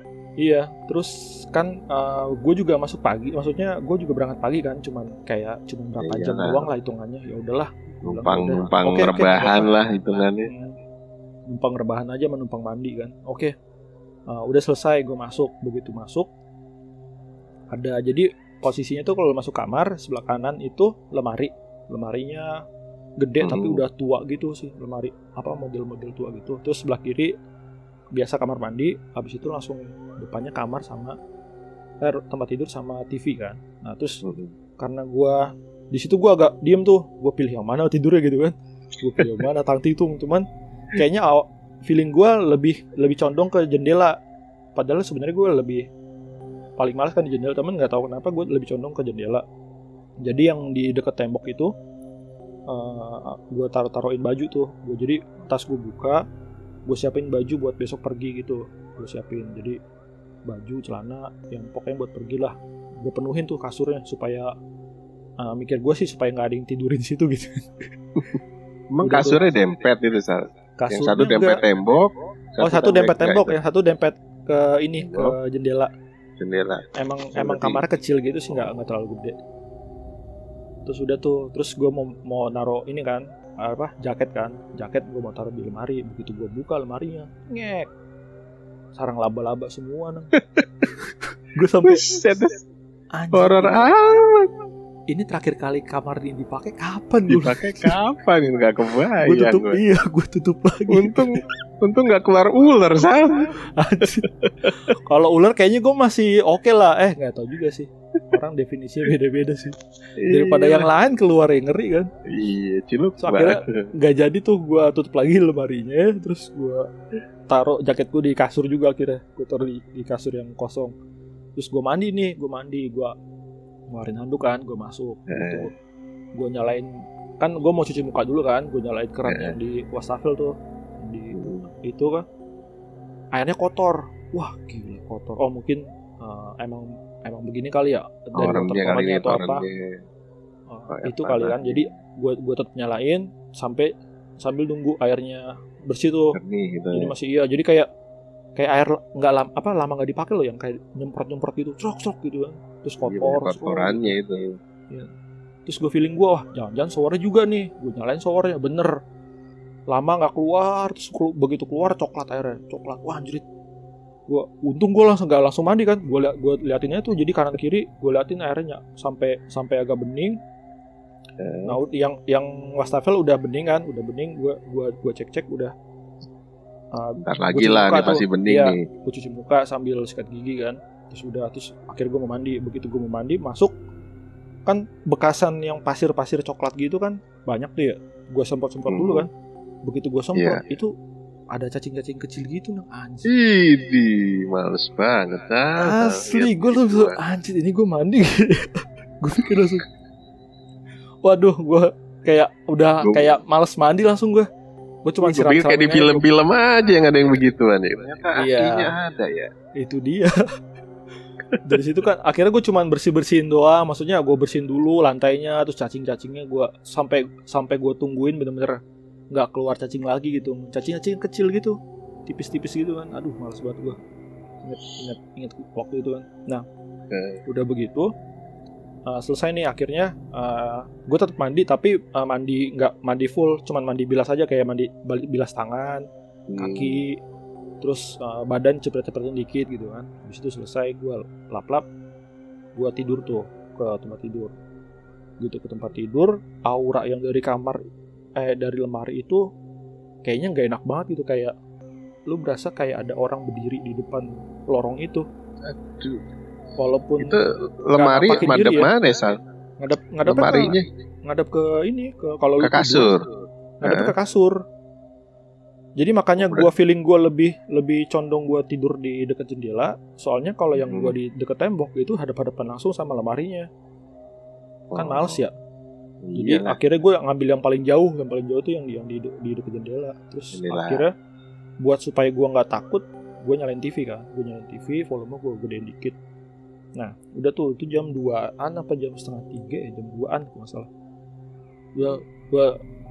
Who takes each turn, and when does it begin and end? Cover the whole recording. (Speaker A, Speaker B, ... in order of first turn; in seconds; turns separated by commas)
Speaker A: 0.4-9.8, Speaker B: 6.0-6.7, Speaker B: 8.0-10.5, Speaker A: 10.4-10.8, Speaker A: 11.5-13.5, Speaker A: 14.3-16.3, Speaker A: 17.7-22.6, Speaker A: 23.2-27.3, Speaker B: 23.4-23.8, Speaker A: 28.1-31.2, Speaker A: 32.0-34.2, Speaker B: 34.2-34.5, Speaker A: 34.8-44.2, Speaker A: 44.8-45.9, Speaker A: 46.8-49.4, Speaker A: 50.2-51.7, Speaker A: 52.7-56.2, Speaker A: 56.9-59.8, Speaker A: 60.5-64.5, Speaker A: 65.4-67.9, Speaker B: 68.9-73.6, Speaker A: 69.0-69.4, Speaker A: 70.8-71.6, Speaker A: 72.6-75.9, Speaker B: 75.0-75.4, Speaker B: 76.4-77.8, Speaker A: 77.0-79.4, Speaker A: 80.9-87.9, Speaker A: 89.0-92.1, Speaker B: 91.8-92.6, Speaker A: 93.2-93.9, Speaker B: 93.3-94.5, Speaker A: 95.1-98.0, Speaker B: 97.3-99.8, Speaker A: 99.2-101.3, Speaker B: 100.9-103.6, Speaker A: 103.8-112.1, Speaker B: 104.2-104.7, Speaker B: 110.2-110.9, Speaker B: 112.2-113.9, Speaker A: 113.2-116.9, Speaker A: 117.5-120.9, Speaker A: 121.6-123.2, Speaker A: 123.9-125.7, Speaker B: 125.3-125.7, Speaker A: 126.4-132.2, Speaker B: 129.3-129.6, Speaker B: 131.3-131.7, Speaker A: 133.4-139.7, Speaker B: 138.4-140.0, Speaker A: 140.7-146.4, Speaker B: 140.9-141.9, Speaker B: 146.3-147.1, Speaker A: 146.9-147.9, Speaker A: 148.6-154.2, Speaker B: 153.0-154.6, Speaker A: 155.7-158.9, Speaker A: 159.9-163.4, Speaker A: 164.3-170.4, Speaker B: 171.4-171.8, Speaker A: 171.7-175.7, Speaker A: 176.9-183.7, Speaker B: 177.2-178.9, Speaker A: 184.7-189.3, Speaker B: 188.9-189.3, Speaker A: 189.8-190.9, Speaker B: 190.3-190.7, Speaker A: 191.5-193.3, Speaker B: 193.3-197.2, Speaker A: 195.8-199.8, Speaker A: 201.2-204.5, Speaker B: 203.0-203.3, Speaker A: 205.1-206.2, Speaker B: 205.2-209.5, Speaker A: 208.4-209.0, Speaker A: 209.8-210.4, Speaker A: 211.6-218.8, Speaker A: 219.3-224.0, Speaker A: 224.6-226.7, Speaker B: 227.1-227.4, Speaker A: 227.5-228.1, Speaker A: 229.1-236.1, Speaker B: 236.5-237.0, Speaker A: 236.6-237.2, Speaker A: 237.8-241.8, Speaker A: 242.8-244.5, Speaker A: 245.4-247.8, Speaker A: 248.4-249.4, Speaker A: 250.2-251.5, Speaker A: 252.3-255.2, Speaker B: 255.6-256.2, Speaker A: 256.8-257.4, Speaker B: 257.2-259.4, Speaker A: 257.9-258.9, Speaker A: 259.8-263.1, Speaker B: 260.2-260.8, Speaker B: 262.6-263.2, Speaker A: 263.8-264.6, Speaker B: 263.8-264.1, Speaker A: 266.0-273.7, Speaker B: 266.4-266.7, Speaker B: 270.8-271.2, Speaker B: 274.9-275.4, Speaker A: 274.9-275.5, Speaker B: 276.2-276.8, Speaker A: 276.4-281.1, Speaker B: 280.5-281.0, Speaker A: 281.8-286.2, Speaker A: 287.0-290.9, Speaker A: 292.0-292.8